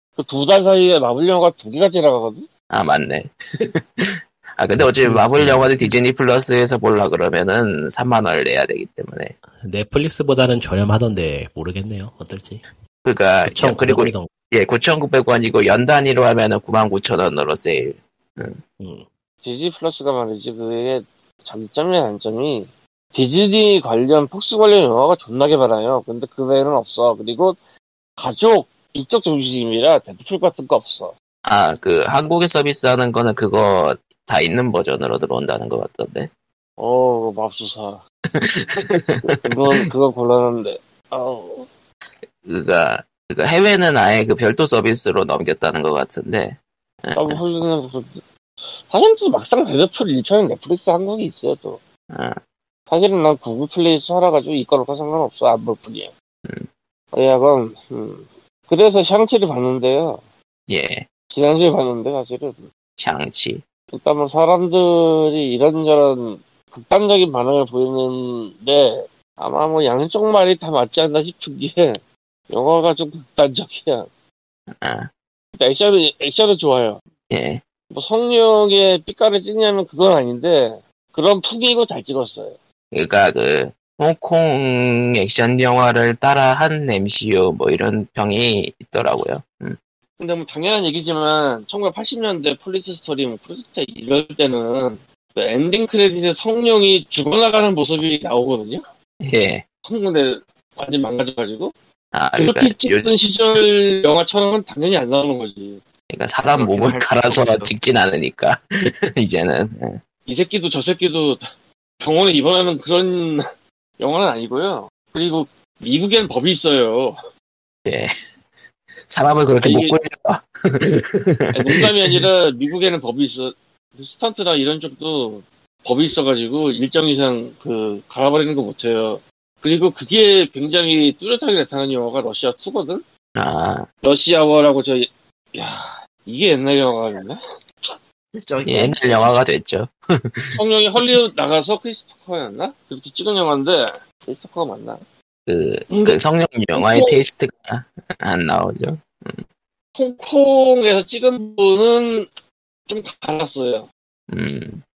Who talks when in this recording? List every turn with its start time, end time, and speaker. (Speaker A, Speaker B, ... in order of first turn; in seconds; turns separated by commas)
Speaker A: 0.2-2.5, Speaker B: 2.7-9.3, Speaker C: 4.8-5.9, Speaker C: 9.6-12.6, Speaker B: 13.1-18.6, Speaker C: 13.5-14.3, Speaker C: 18.8-19.1, Speaker A: 19.4-27.6, Speaker A: 28.2-31.1, Speaker B: 31.5-36.3, Speaker A: 36.8-38.0, Speaker B: 38.4-39.8, Speaker A: 39.2-41.7, Speaker B: 42.4-47.4, Speaker A: 47.1-51.8, Speaker B: 52.1-52.4, Speaker A: 52.9-56.1, Speaker A: 57.1-60.2, Speaker B: 60.7-61.0, Speaker A: 61.3-62.7, Speaker B: 63.0-63.6, Speaker A: 63.9-74.1, Speaker B: 74.8-75.1, Speaker A: 75.6-77.0, Speaker B: 77.3-77.6, Speaker A: 77.9-82.6, Speaker B: 82.9-89.8, Speaker A: 90.2-98.8, Speaker B: 99.2-99.6, Speaker A: 99.8-101.7, Speaker B: 102.1-103.1, Speaker A: 102.4-105.8, Speaker B: 106.1-108.6, Speaker D: 106.5-107.7, Speaker B: 109.2-110.0, Speaker A: 110.3-111.5, Speaker A: 112.0-113.5, Speaker A: 114.0-117.2, Speaker B: 117.8-118.1, Speaker B: 119.1-122.3, Speaker A: 119.6-120.0, Speaker A: 121.5-133.0, Speaker B: 133.4-133.9, Speaker A: 134.0-137.9, Speaker D: 138.3-139.3, Speaker B: 138.7-140.6, Speaker A: 140.5-145.0, Speaker B: 145.5-149.4, Speaker A: 145.9-146.2, Speaker A: 146.7-147.2, Speaker A: 150.0-152.3, Speaker A: 152.9-153.9, Speaker B: 154.3-154.8